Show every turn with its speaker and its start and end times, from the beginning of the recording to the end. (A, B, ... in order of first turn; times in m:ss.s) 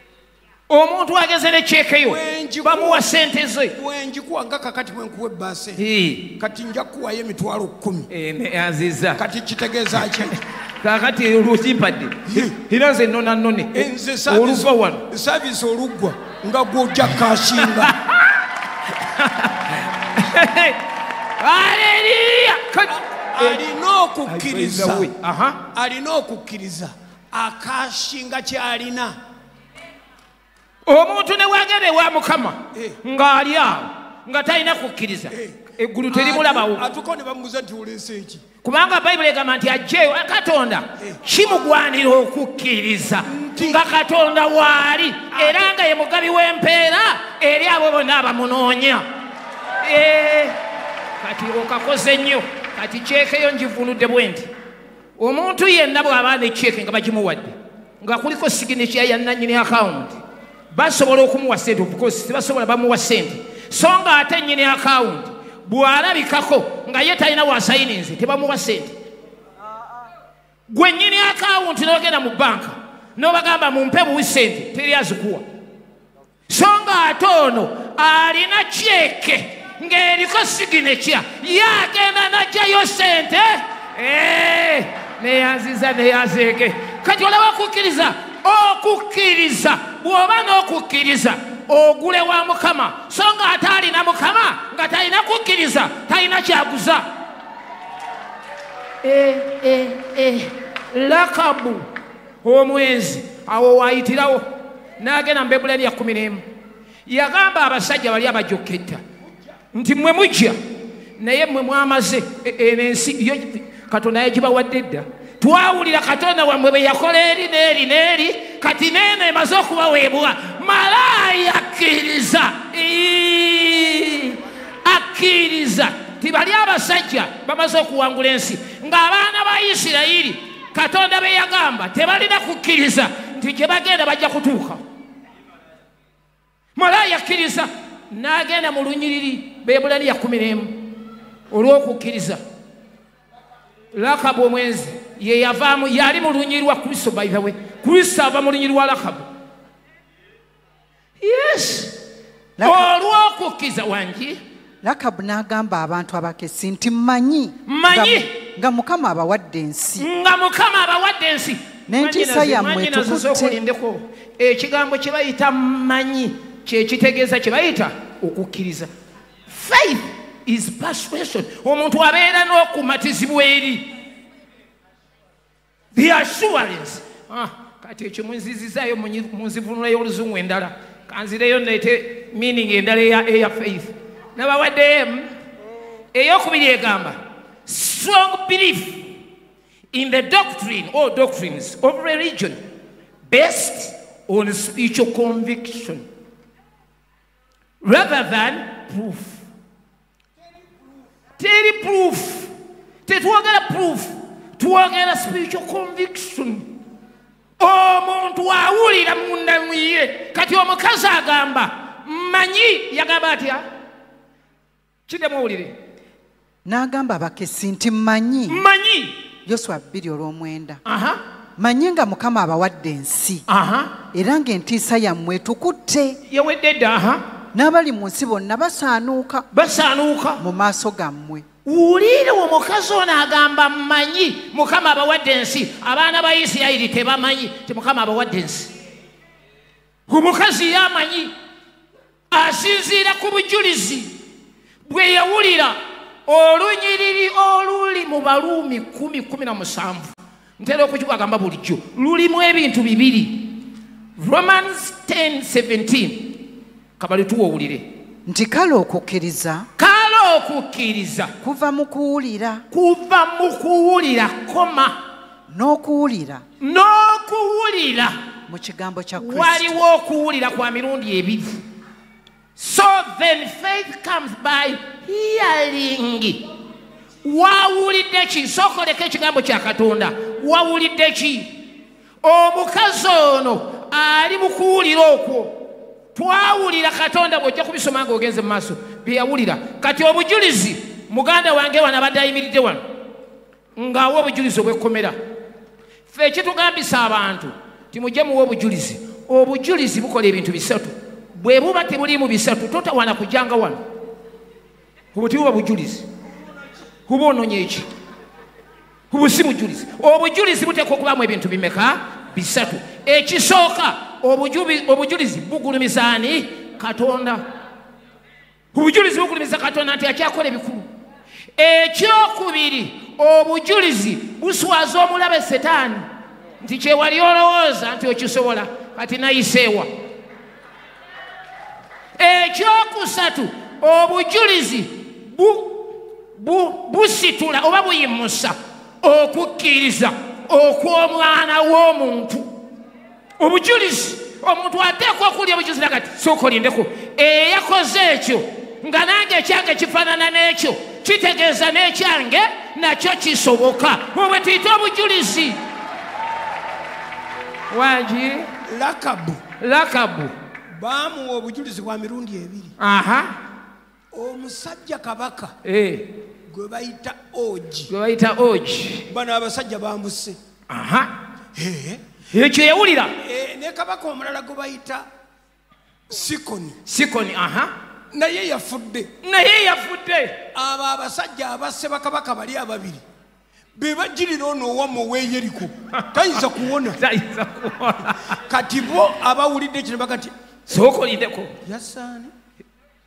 0:00.7-0:03.8 A
0:02.0-0:03.1 B
0:03.7-0:05.8 B
0:05.8-0:06.3 A
0:06.4-0:08.1 B
0:08.1-0:09.2 A
0:09.2-0:10.4 B
0:10.8-0:15.1 A
0:13.7-0:17.9 B
0:17.7-0:18.2 A
0:19.0-0:20.8 A
0:21.4-0:23.6 A
0:22.9-0:25.1 B
0:24.3-0:25.6 A
0:25.7-0:29.2 B
0:30.8-0:36.8 A
0:35.3-0:38.4 B
0:38.6-0:49.0 A
0:43.3-0:43.8 B
0:45.3-0:45.7 B
0:49.8-0:50.6 A
0:51.2-0:54.5 A
0:55.2-1:00.2 A
1:00.7-1:08.9 A
1:10.7-1:15.4 A
1:16.5-1:37.0 A
1:39.0-1:41.8 A
1:42.4-1:44.4 A
1:45.0-1:46.4 A
1:47.0-1:49.0 A
1:49.7-1:50.6 A
1:51.2-2:14.8 A
2:16.8-2:22.4 A
2:23.9-2:29.2 A
2:31.2-2:32.0 A
2:32.6-2:32.9 C
2:32.6-2:34.4 A
2:34.8-2:40.1 C
2:37.6-2:38.3 A
2:40.0-2:48.9 A
2:41.9-2:43.6 C
2:49.5-2:53.9 A
2:55.9-3:05.3 A
3:06.1-3:09.1 A
3:09.9-3:12.6 A
3:13.3-3:16.0 A
3:17.8-3:19.4 A
3:21.4-3:22.5 A
3:23.0-3:26.7 A
3:27.6-3:33.6 A
3:35.1-3:35.7 A
3:36.6-3:38.6 C
3:38.5-3:39.2 A
3:39.4-3:40.8 C
3:40.8-3:41.2 A
3:41.6-3:43.4 C
3:43.5-3:43.9 A
3:44.1-3:46.2 C
3:46.3-3:47.2 A
3:47.5-3:49.4 C
3:49.5-3:50.4 A
3:50.4-3:51.4 C
3:51.6-3:58.7 A
4:00.1-4:01.3 A
4:02.3-4:04.1 A
4:04.8-4:13.6 A
4:14.2-4:16.4 A
4:17.0-4:17.8 A
4:18.3-4:19.7 C
4:19.8-4:21.3 A
4:21.4-4:22.6 C
4:22.7-4:25.0 A
4:25.5-4:26.4 C
4:26.6-4:28.2 A
4:28.5-4:29.7 C
4:29.2-4:31.6 A
4:32.6-4:36.4 A
4:37.2-4:41.5 A
4:42.2-4:45.6 A
4:46.1-4:52.8 A
4:53.8-4:55.2 A
4:56.1-5:03.8 A
5:05.1-5:06.0 A
5:07.1-5:07.9 A
5:09.1-5:17.4 A
5:18.7-5:20.9 A
5:21.6-5:26.1 A
5:26.6-5:29.9 A
5:32.2-5:42.6 A
5:43.4-5:55.6 A
5:57.7-5:58.5 A
5:58.7-5:59.4 B
5:59.6-6:00.3 A
6:00.7-6:02.7 B
6:02.8-6:03.3 A
6:04.1-6:05.5 B
6:05.6-6:06.1 A
6:06.5-6:07.9 B
6:07.9-6:09.1 A
6:09.1-6:10.4 B
6:10.7-6:11.1 A
6:11.5-6:12.0 B
6:12.3-6:13.1 A
6:13.2-6:15.0 B
6:16.1-6:16.8 B
6:16.8-6:17.7 A
6:18.1-6:19.1 B
6:19.2-6:20.4 A
6:20.5-6:23.0 B
6:23.7-6:27.0 B
6:25.9-6:26.3 A
6:27.0-6:28.4 A
6:28.5-6:30.3 B
6:30.7-6:31.5 A
6:31.6-6:32.3 B